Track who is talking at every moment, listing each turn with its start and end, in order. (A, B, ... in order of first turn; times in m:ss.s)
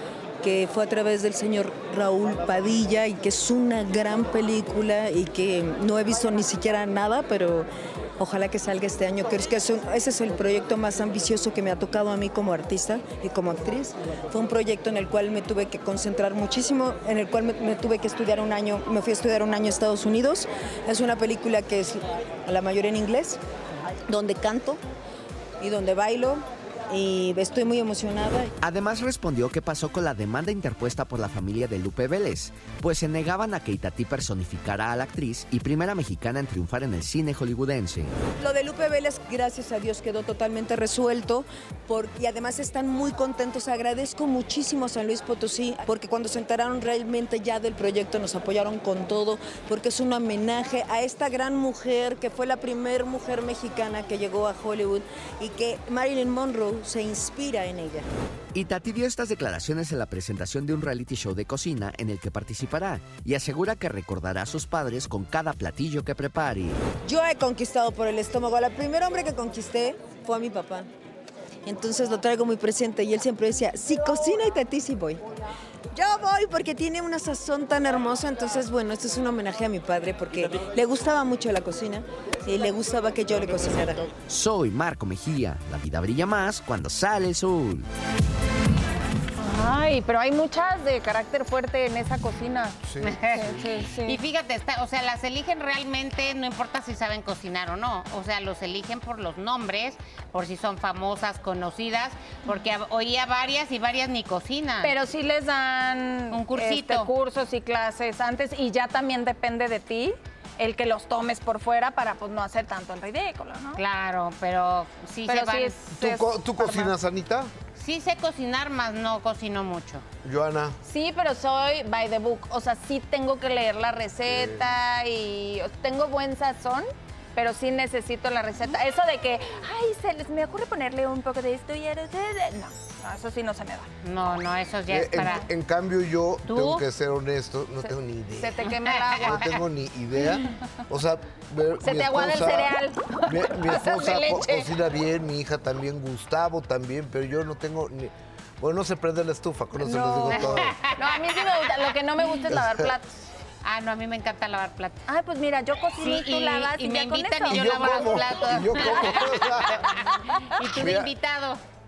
0:00.4-0:23.4 A
0:24.1-0:24.8 A
0:25.6-0:28.5 A
0:28.6-0:38.1 B
0:38.4-0:58.1 A
0:58.5-1:06.8 B
1:07.0-1:10.9 A
1:11.6-1:15.2 A
1:15.9-1:24.0 A
1:24.3-1:27.8 B
1:29.4-1:34.2 C
1:32.8-1:33.2 D
1:33.0-1:44.9 E
1:44.8-1:53.8 C
1:46.3-1:47.1 E
1:53.8-1:56.0 E
1:55.3-1:56.9 C
1:55.9-1:57.5 D
1:57.8-2:00.0 E
2:00.2-2:00.8 D
2:00.8-2:13.9 C
2:04.3-2:04.6 D
2:14.0-2:15.4 E
2:14.9-2:18.6 D
2:16.5-2:16.8 E
2:18.4-2:19.5 C
2:18.7-2:19.4 E
2:19.2-2:22.7 D
2:21.8-2:24.6 C
2:23.3-2:30.8 D
2:29.8-2:33.3 C
2:30.3-2:31.9 E
2:32.5-2:33.0 D
2:33.6-2:35.0 E
2:35.1-2:37.6 C
2:36.0-2:41.6 E
2:37.5-2:39.9 D
2:39.8-2:40.5 C
2:40.7-2:41.1 D